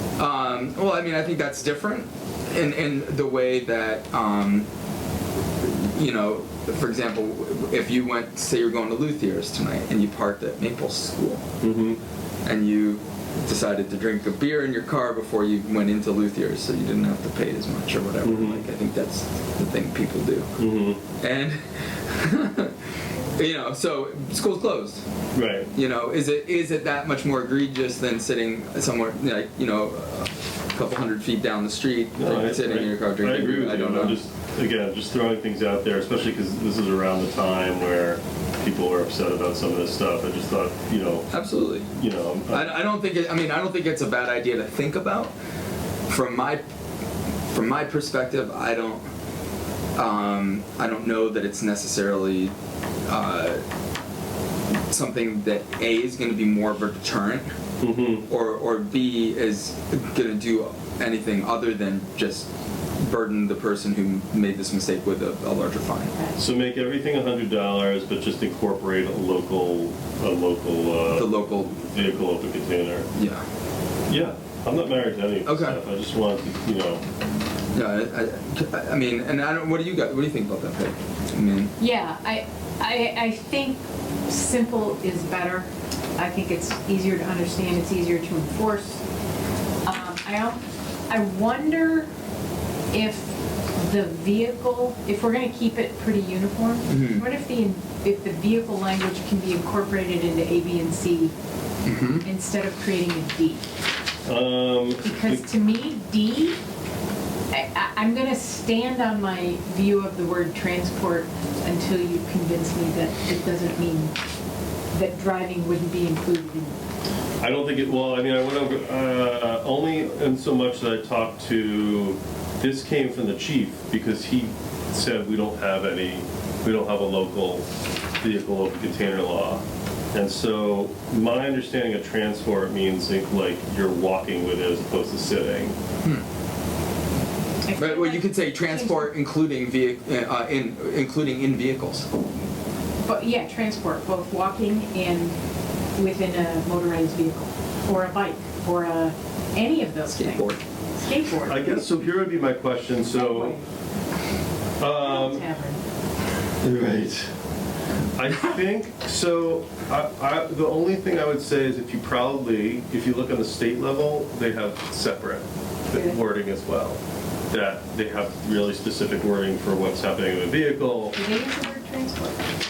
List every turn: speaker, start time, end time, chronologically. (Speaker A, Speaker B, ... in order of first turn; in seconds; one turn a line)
Speaker A: 0.2-4.7
Speaker A: 5.6-11.4
Speaker B: 11.6-12.0
Speaker A: 12.4-20.5
Speaker B: 18.2-18.6
Speaker B: 20.6-21.0
Speaker A: 21.2-22.7
Speaker A: 23.4-25.0
Speaker B: 25.3-25.7
Speaker A: 25.7-34.2
Speaker B: 32.1-41.3
Speaker A: 41.3-41.9
Speaker B: 42.0-42.7
Speaker A: 42.5-45.3
Speaker A: 46.1-46.6
Speaker A: 47.5-49.0
Speaker A: 50.0-52.5
Speaker A: 53.1-53.6
Speaker A: 54.9-57.5
Speaker B: 57.8-58.2
Speaker A: 58.3-62.5
Speaker A: 63.0-66.1
Speaker B: 66.4-73.1
Speaker A: 71.1-71.8
Speaker A: 73.1-73.4
Speaker B: 74.1-77.0
Speaker A: 75.4-75.8
Speaker A: 77.7-81.7
Speaker C: 81.8-89.0
Speaker C: 89.8-92.1
Speaker C: 92.9-101.3
Speaker A: 96.9-97.2
Speaker A: 101.8-102.2
Speaker C: 102.2-103.6
Speaker B: 104.2-105.4
Speaker C: 105.0-106.6
Speaker C: 107.5-114.1
Speaker C: 114.9-116.8
Speaker B: 117.4-127.6
Speaker B: 128.2-129.6
Speaker B: 130.1-135.8
Speaker C: 137.7-139.1
Speaker A: 137.8-142.1
Speaker C: 143.0-145.4
Speaker C: 145.9-151.6
Speaker A: 150.1-150.6
Speaker B: 151.4-153.5
Speaker C: 153.1-153.6
Speaker B: 154.8-155.4
Speaker C: 155.0-155.8
Speaker B: 156.6-157.3
Speaker B: 158.1-167.0
Speaker B: 167.5-171.2
Speaker C: 171.1-172.4